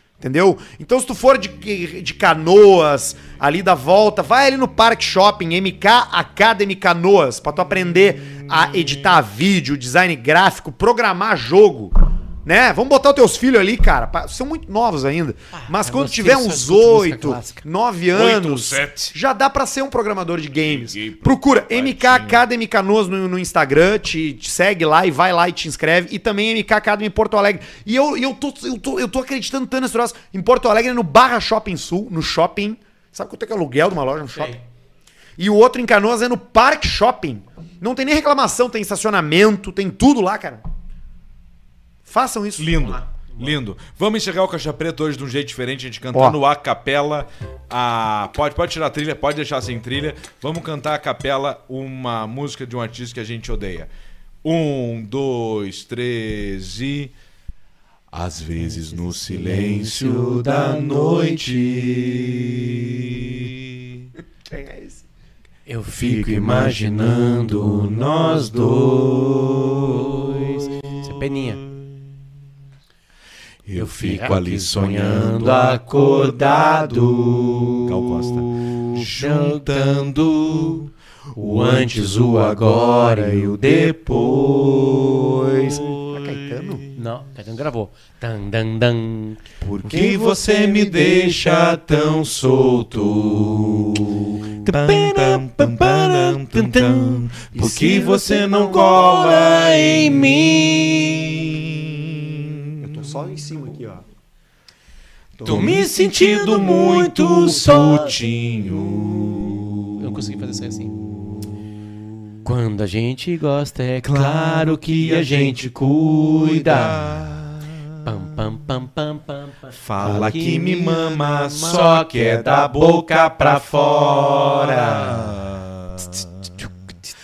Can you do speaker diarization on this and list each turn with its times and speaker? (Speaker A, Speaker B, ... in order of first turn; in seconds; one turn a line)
Speaker A: 0.2-34.6
Speaker B: 8.2-9.1
Speaker C: 15.5-17.6
Speaker B: 18.1-19.1
Speaker B: 20.6-22.4
Speaker C: 34.4-34.6
Speaker A: 35.4-40.6
Speaker A: 42.0-43.0
Speaker B: 42.6-53.9
Speaker B: 54.4-57.1
Speaker B: 58.1-64.0
Speaker C: 58.6-61.5
Speaker A: 64.4-65.0
Speaker C: 65.7-68.8
Speaker B: 65.9-71.9
Speaker C: 71.0-71.6
Speaker B: 73.7-77.0
Speaker C: 73.7-78.0
Speaker B: 77.8-80.9
Speaker C: 79.0-80.0
Speaker C: 81.4-84.3
Speaker B: 81.4-87.2
Speaker A: 86.1-86.8
Speaker C: 86.9-91.3
Speaker B: 89.6-102.9
Speaker C: 94.6-101.3
Speaker A: 102.8-104.0
Speaker B: 105.4-110.0
Speaker C: 105.4-108.2
Speaker C: 110.0-111.0
Speaker C: 112.4-117.0
Speaker B: 114.0-117.8
Speaker C: 118.0-125.1
Speaker B: 119.7-126.7